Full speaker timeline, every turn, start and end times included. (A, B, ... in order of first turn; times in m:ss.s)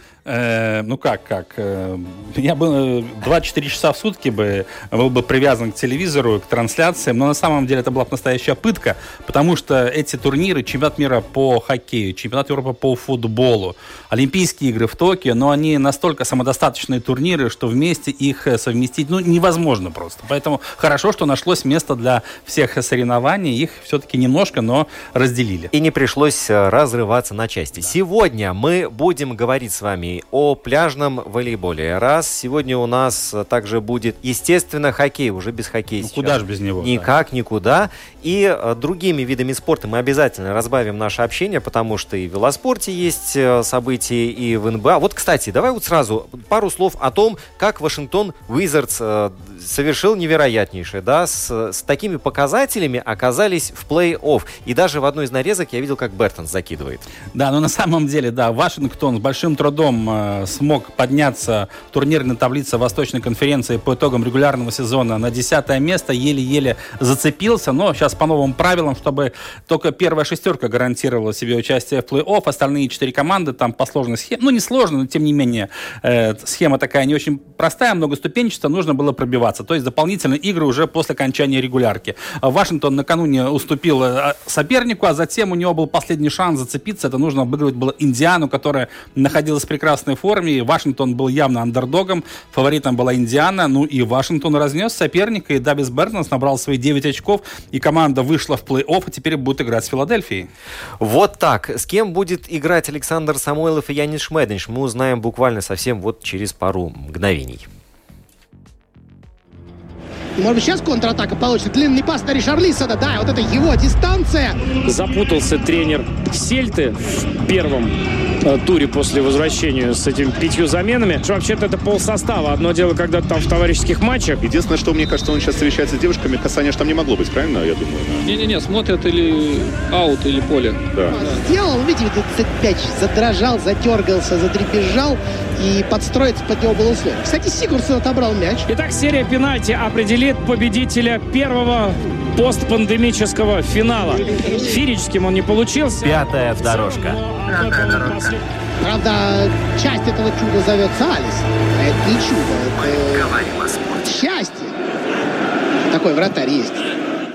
0:00.3-0:25.7 A
0:25.7-0:57.1 B
0:36.0-0:37.1 A
0:57.3-1:40.5 A
1:41.0-1:47.7 B
1:50.4-1:54.8 C
1:54.8-2:04.4 D
2:04.4-2:08.3 E
2:08.2-2:11.4 F
2:10.9-2:11.2 E
2:11.1-2:18.7 C
2:18.7-2:28.4 D
2:24.3-2:24.6 C
2:26.0-2:28.4 B
2:28.8-2:33.4 C
2:32.8-2:34.2 B
2:34.0-2:34.8 C
2:35.9-2:36.8 C